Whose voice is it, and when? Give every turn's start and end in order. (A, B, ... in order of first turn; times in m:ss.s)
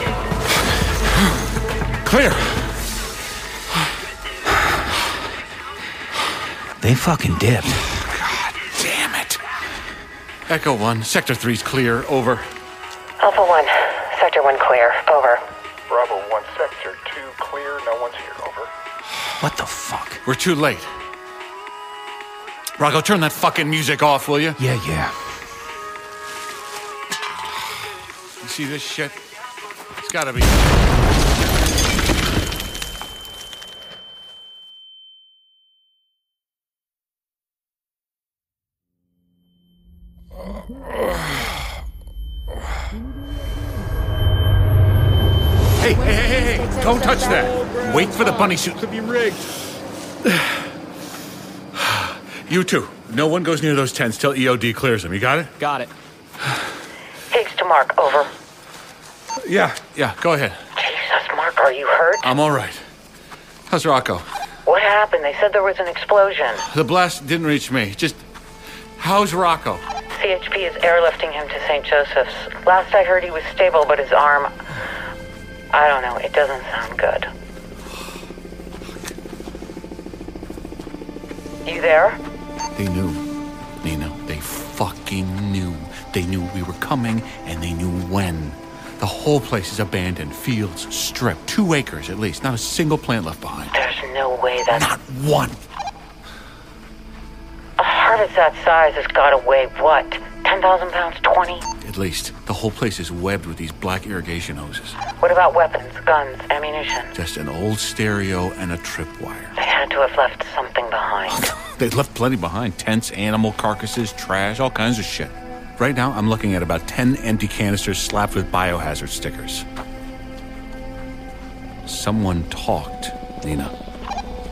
0:02.0-0:02.7 A
0:06.8-0:07.8 B
0:08.1-0:09.4 A
0:10.5-0:12.5 A
0:13.2-0:15.4 C
0:15.9-0:18.7 D
0:19.4-0:20.2 B
0:20.2-0:20.9 A
0:22.8-0:24.6 A
0:24.6-0:25.2 B
0:28.4-0:29.2 A
0:30.0-0:30.6 A
0:45.8-0:49.4 A
0:51.8-0:55.6 A
0:57.3-0:58.3 C
0:59.4-1:00.6 A
1:00.8-1:02.3 C
1:02.2-1:02.8 A
1:03.7-1:04.3 A
1:04.6-1:06.6 C
1:06.6-1:08.2 A
1:09.0-1:09.8 A
1:10.1-1:14.5 C
1:15.7-1:17.3 C
1:21.6-1:22.2 C
1:22.8-1:23.2 A
1:23.8-1:33.8 A
1:33.7-1:34.9 C
1:34.7-1:35.6 A
1:37.8-1:41.6 C
1:41.8-1:45.0 A
1:45.2-1:47.1 C
1:47.1-1:49.6 A
1:49.6-1:51.4 C
1:51.3-1:59.6 A
2:01.9-2:03.7 A